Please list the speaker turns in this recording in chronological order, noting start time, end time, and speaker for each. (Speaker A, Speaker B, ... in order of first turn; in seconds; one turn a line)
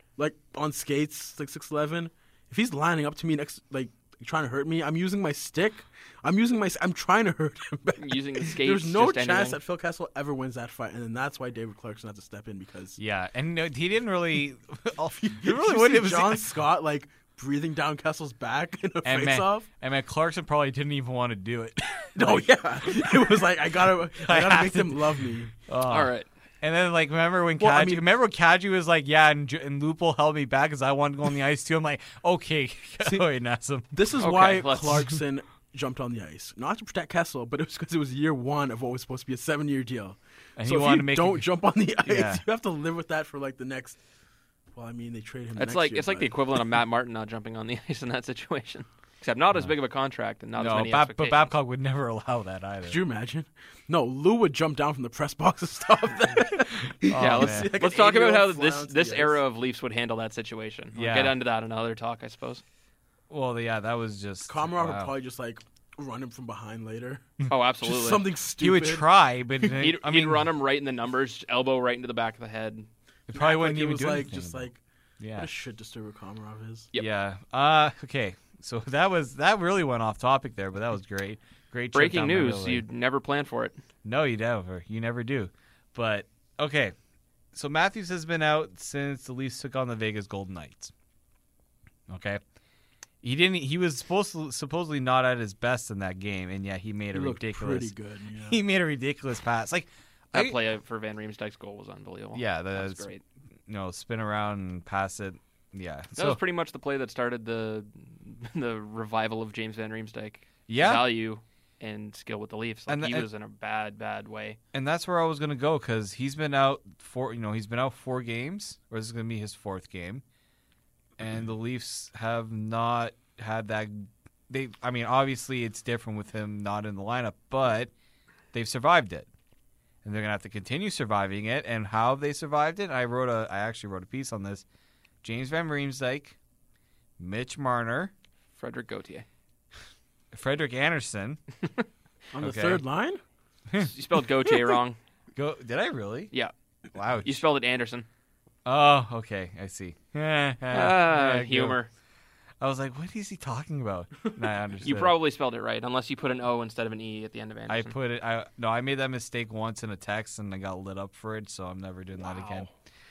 Speaker A: 0.2-13.0
Speaker B: 8.0-9.6
Speaker C: 13.0-16.5
Speaker A: 15.2-19.7
Speaker C: 19.0-23.3
Speaker A: 22.1-25.5
Speaker C: 24.1-25.1
Speaker C: 25.7-33.9
Speaker B: 25.9-26.3
Speaker A: 27.6-28.0
Speaker A: 33.9-44.0
Speaker B: 34.2-35.1
Speaker C: 40.6-41.5
Speaker C: 42.0-42.4
Speaker A: 44.7-46.4
Speaker B: 45.6-51.5
Speaker C: 50.6-53.0
Speaker A: 52.9-59.4
Speaker C: 57.0-57.8
Speaker B: 57.1-62.6
Speaker C: 60.9-61.4
Speaker C: 63.3-65.1
Speaker A: 64.5-67.3
Speaker B: 67.5-68.2
Speaker A: 67.8-69.1
Speaker C: 68.6-70.5
Speaker B: 69.7-72.9
Speaker C: 73.3-74.7
Speaker A: 73.3-74.8
Speaker C: 75.2-75.5
Speaker A: 75.4-76.9
Speaker C: 77.0-82.8
Speaker B: 81.9-83.8
Speaker C: 84.0-86.9
Speaker C: 87.5-90.9
Speaker C: 92.1-92.4
Speaker C: 93.2-97.9
Speaker A: 97.1-98.6
Speaker C: 98.5-100.6
Speaker B: 100.3-103.2
Speaker C: 102.3-103.1
Speaker C: 103.7-106.4
Speaker B: 106.2-114.6
Speaker C: 110.7-111.0
Speaker C: 112.9-113.3
Speaker C: 114.7-120.2
Speaker C: 121.2-127.9
Speaker C: 128.5-129.3
Speaker C: 130.0-134.6
Speaker C: 135.2-136.3
Speaker C: 137.2-138.1
Speaker B: 138.5-139.2
Speaker C: 140.3-141.4
Speaker A: 142.3-143.2
Speaker C: 142.4-142.8
Speaker B: 143.8-145.0
Speaker C: 145.3-146.3
Speaker C: 146.9-147.4
Speaker B: 147.2-148.1
Speaker C: 148.7-151.8
Speaker B: 150.7-151.9
Speaker C: 152.6-155.1
Speaker B: 154.8-157.9
Speaker C: 157.7-162.7
Speaker A: 162.2-162.7